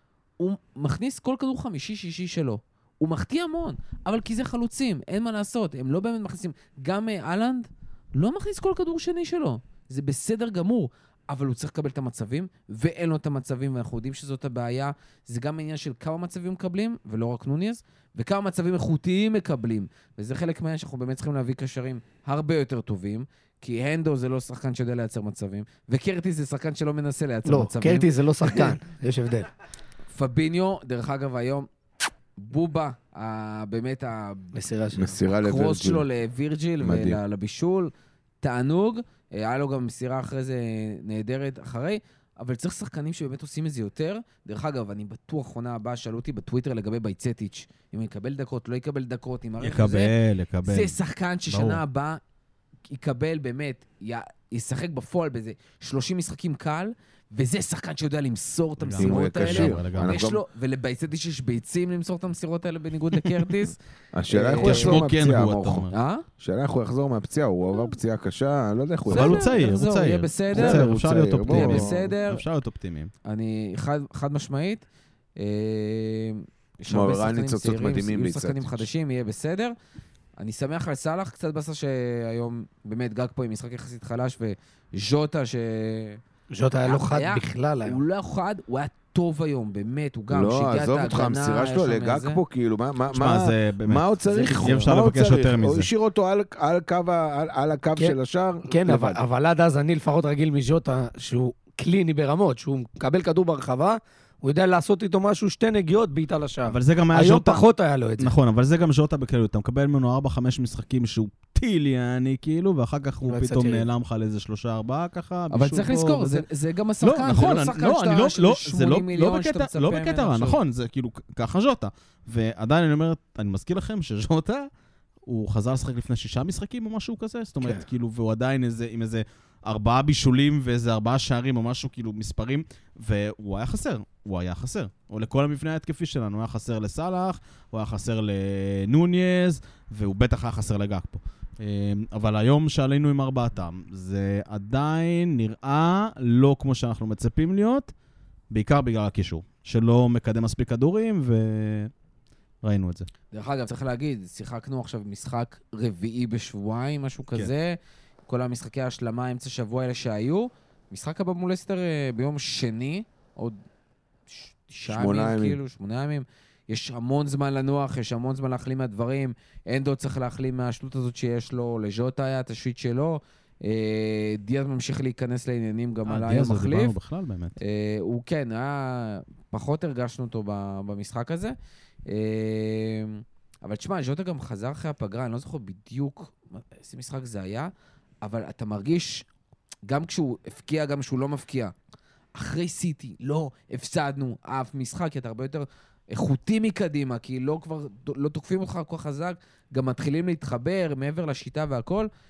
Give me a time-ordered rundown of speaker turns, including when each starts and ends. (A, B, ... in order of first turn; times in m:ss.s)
0:00.4-0:28.8 A
0:27.5-0:29.5 B
0:30.1-0:31.7 A
0:32.4-0:34.6 A
0:34.5-0:35.2 B
0:35.0-0:36.1 C
0:35.3-0:50.1 A
0:36.8-0:37.2 C
0:49.6-0:51.0 D
0:50.6-0:52.2 A
0:51.5-0:51.8 D
0:52.9-1:03.8 A
0:58.8-1:00.2 D
0:59.0-1:00.4 C
1:04.1-1:05.9 C
1:04.3-1:05.1 A
1:04.6-1:05.9 D
1:05.9-1:06.2 A
1:06.4-1:09.5 C
1:09.1-1:10.9 A
1:09.1-1:13.1 D
1:10.5-1:12.1 C
1:11.5-1:12.4 A
1:13.2-1:14.8 A
1:15.4-1:19.8 A
1:16.9-1:18.9 C
1:20.4-1:26.2 A
1:26.5-1:28.0 B
1:26.8-1:32.4 A
1:30.3-1:39.2 C
1:33.1-1:35.9 D
1:34.3-1:34.8 A
1:38.0-1:48.3 B
1:46.7-1:47.6 D
1:48.2-1:56.4 D
1:53.2-1:53.9 B
1:55.5-2:00.6 A
1:57.0-2:04.7 D
2:05.3-2:27.9 D
2:28.5-2:31.9 D
2:32.6-2:33.1 D
2:33.3-2:43.6 A
2:44.3-2:57.0 A
2:44.9-2:45.6 C
2:56.1-2:57.6 D
2:57.6-3:01.6 A
3:02.1-3:07.7 A
3:08.2-3:09.3 A
3:09.9-3:11.7 A
3:12.4-3:22.1 A